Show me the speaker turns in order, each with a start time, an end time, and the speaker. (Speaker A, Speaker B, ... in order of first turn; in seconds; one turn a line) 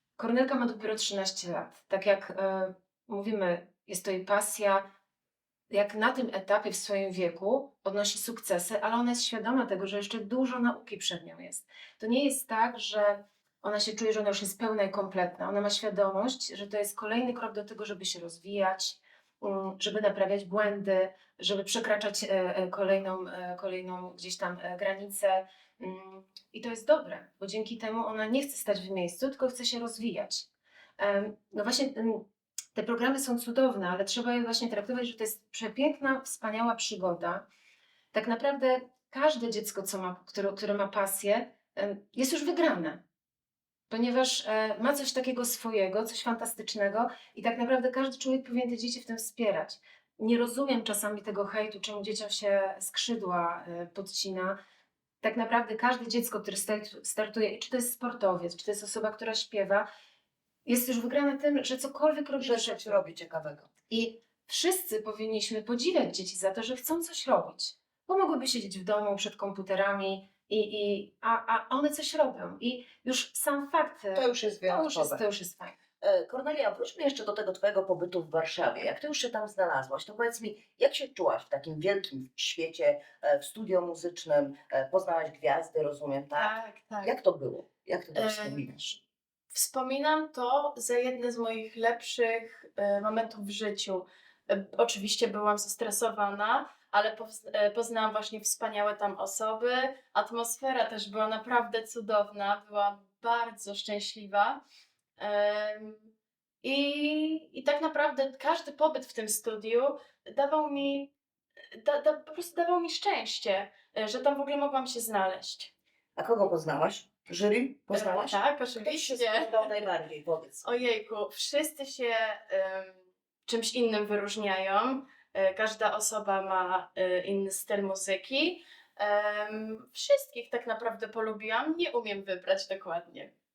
Speaker A: 0.2-4.9
Speaker A: 5.7-30.5
Speaker A: 31.0-37.5
Speaker A: 38.1-43.0
Speaker A: 43.9-54.6
Speaker A: 55.2-59.9
Speaker A: 60.6-63.0
Speaker B: 62.4-63.7
Speaker A: 63.9-75.7
Speaker B: 74.1-75.2
Speaker B: 76.0-88.9
Speaker C: 86.3-87.1
Speaker C: 88.1-88.8
Speaker C: 89.5-104.6
Speaker C: 105.2-106.0
Speaker C: 106.6-111.1
Speaker C: 111.7-115.7
Speaker B: 116.2-120.6
Speaker C: 117.9-119.7
Speaker C: 120.6-133.3